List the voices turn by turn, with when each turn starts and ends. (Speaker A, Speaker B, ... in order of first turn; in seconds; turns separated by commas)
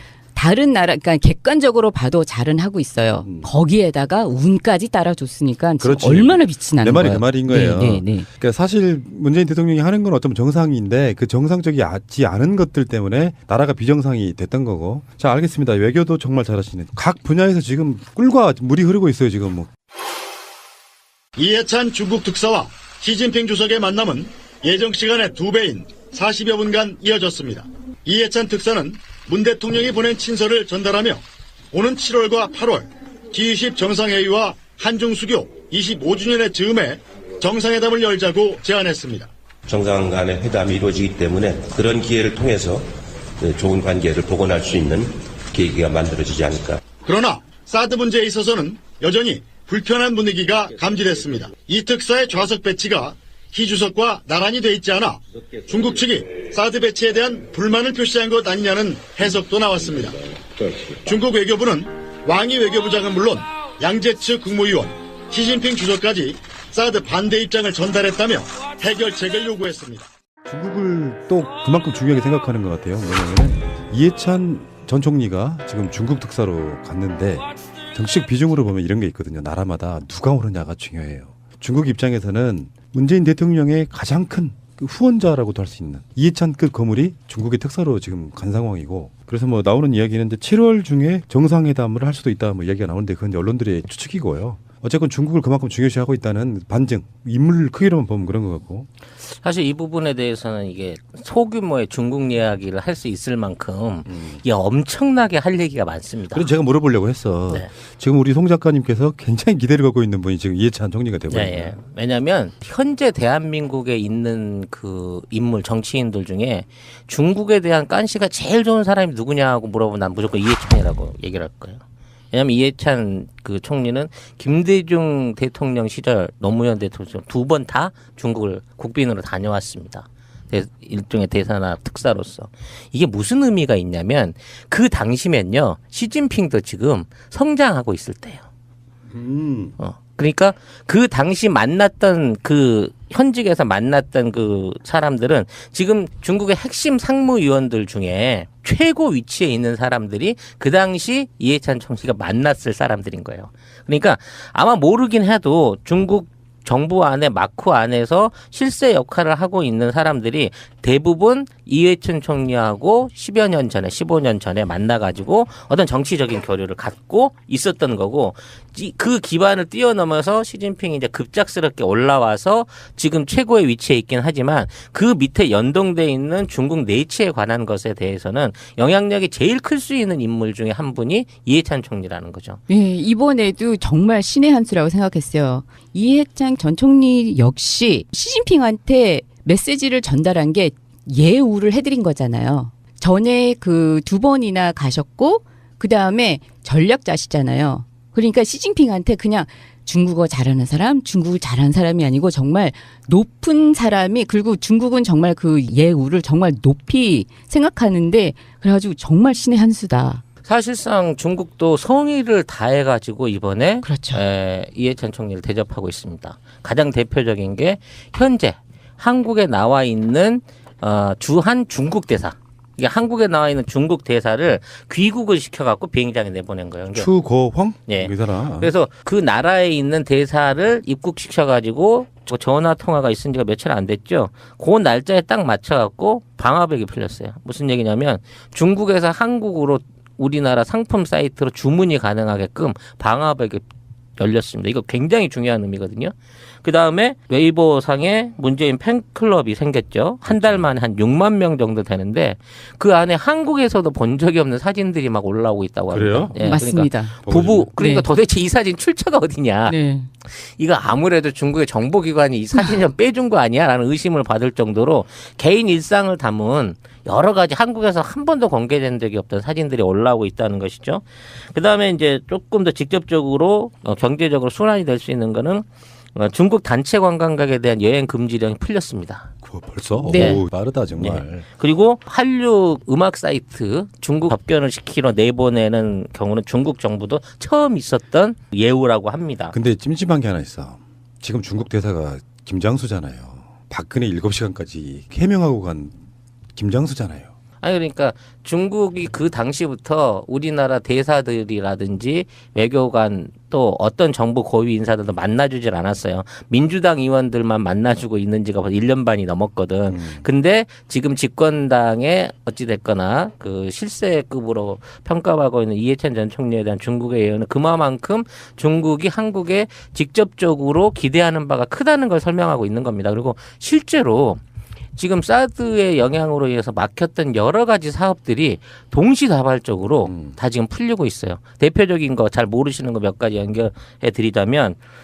Speaker A: 0.3-8.3, Speaker B: 3.2-3.5, Speaker B: 5.8-19.7, Speaker C: 21.4-39.3, Speaker D: 39.7-42.8, Speaker D: 43.4-46.8, Speaker C: 47.0-60.2, Speaker C: 61.0-70.0, Speaker B: 70.5-98.9, Speaker E: 99.3-106.5, Speaker B: 104.1-104.4, Speaker B: 106.3-111.8, Speaker E: 111.3-121.8, Speaker E: 122.3-138.4, Speaker B: 139.1-139.8, Speaker E: 139.8-182.6, Speaker A: 182.7-210.2, Speaker E: 210.4-227.1, Speaker A: 213.8-214.2, Speaker B: 226.9-228.7, Speaker E: 227.9-243.7, Speaker E: 244.2-279.3, Speaker B: 250.3-250.7, Speaker B: 255.9-256.5, Speaker A: 256.4-257.2, Speaker B: 257.3-257.7, Speaker A: 257.8-258.1, Speaker A: 259.7-260.1, Speaker B: 279.4-281.4, Speaker A: 280.0-280.4, Speaker E: 280.1-289.6, Speaker B: 289.5-295.9, Speaker B: 296.6-297.3, Speaker E: 297.6-324.4, Speaker B: 309.9-310.2, Speaker E: 325.0-334.8, Speaker B: 330.1-330.4